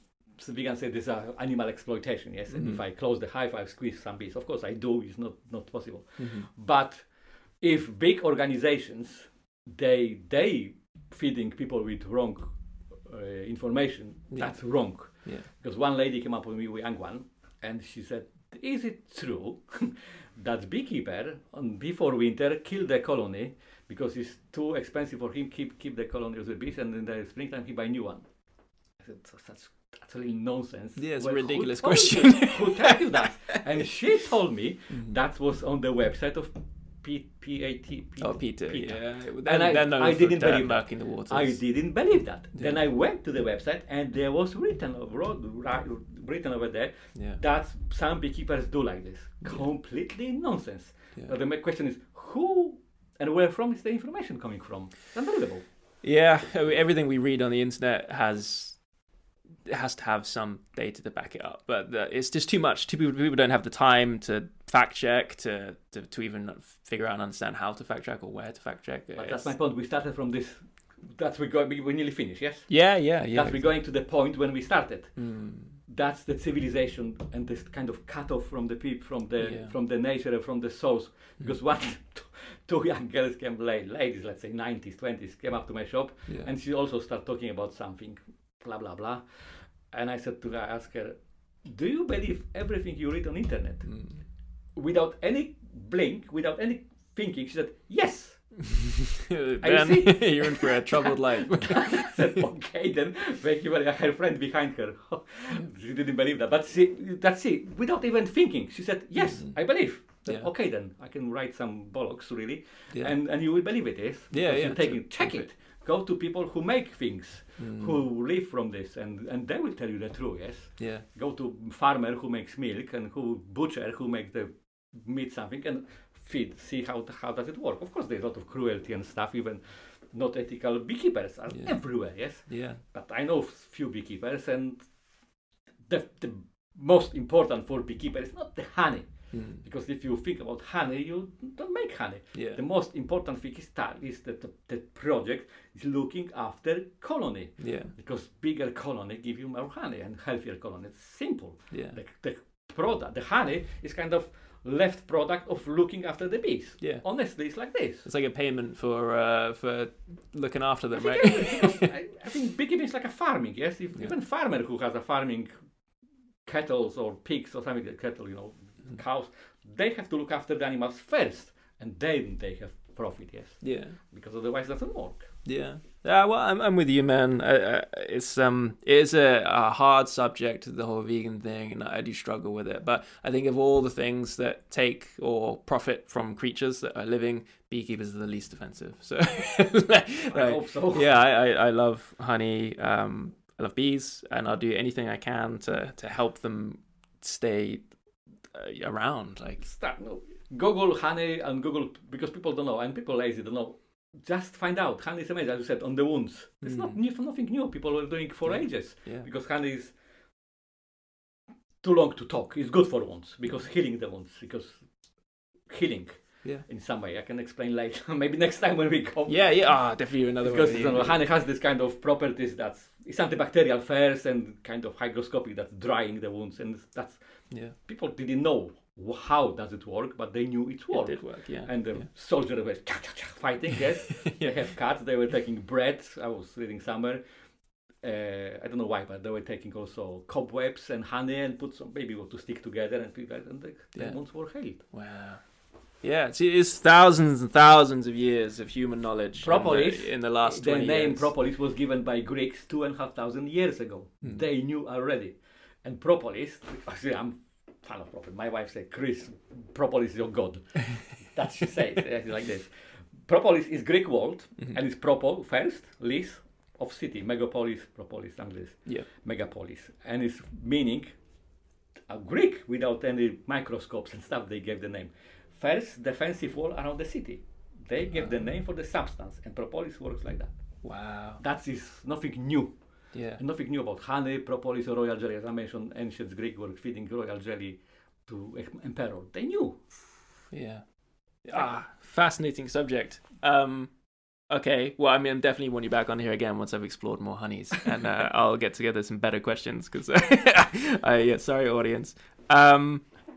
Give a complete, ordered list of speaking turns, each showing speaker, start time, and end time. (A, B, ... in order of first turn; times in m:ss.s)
0:00.4-0:28.3 A
0:02.5-0:02.8 B
0:06.2-0:06.5 B
0:14.3-0:15.5 B
0:29.0-0:55.6 A
0:31.0-0:33.2 B
0:34.9-0:35.2 B
0:38.2-0:41.6 B
0:56.0-0:58.8 B
0:59.7-1:09.5 B
1:09.2-1:12.7 A
1:12.7-1:13.7 B
1:13.3-1:15.2 A
1:15.2-1:15.8 B
1:15.8-1:33.9 A
1:19.4-1:19.7 B
1:33.9-1:34.2 B
1:34.8-1:38.6 A
1:38.7-1:42.4 B
1:39.6-2:14.9 A
1:49.3-1:49.6 B
1:54.3-1:55.4 B
1:57.6-1:58.0 B
2:00.8-2:01.0 B
2:11.5-2:11.8 B
2:12.5-2:12.8 B
2:15.9-2:38.0 A
2:19.3-2:19.6 B
2:22.3-2:22.6 B
2:27.6-2:27.9 B
2:31.7-2:32.0 B
2:38.0-2:41.9 B
2:40.9-2:45.5 A
2:46.4-2:55.3 A
2:53.6-2:54.0 B
2:55.4-3:17.9 B
3:10.3-3:11.1 A
3:18.5-3:19.6 B
3:19.6-3:29.9 A
3:26.6-3:27.0 B
3:28.4-3:29.2 B
3:31.8-3:34.8 A
3:35.7-3:39.4 A
3:39.3-3:41.2 B
3:40.4-3:47.2 A
3:47.8-3:57.2 A
3:50.9-3:52.0 B
3:54.2-3:54.6 B
3:58.0-4:04.8 A
4:04.9-4:05.4 B
4:06.0-4:11.3 B
4:09.4-4:22.7 A
4:23.2-4:31.1 A
4:32.1-4:40.5 A
4:40.8-4:41.4 B
4:41.4-4:42.7 A
4:43.1-4:43.4 B
4:43.4-4:49.8 A
4:50.5-4:50.8 B
4:51.4-4:53.9 B
4:54.5-5:03.0 B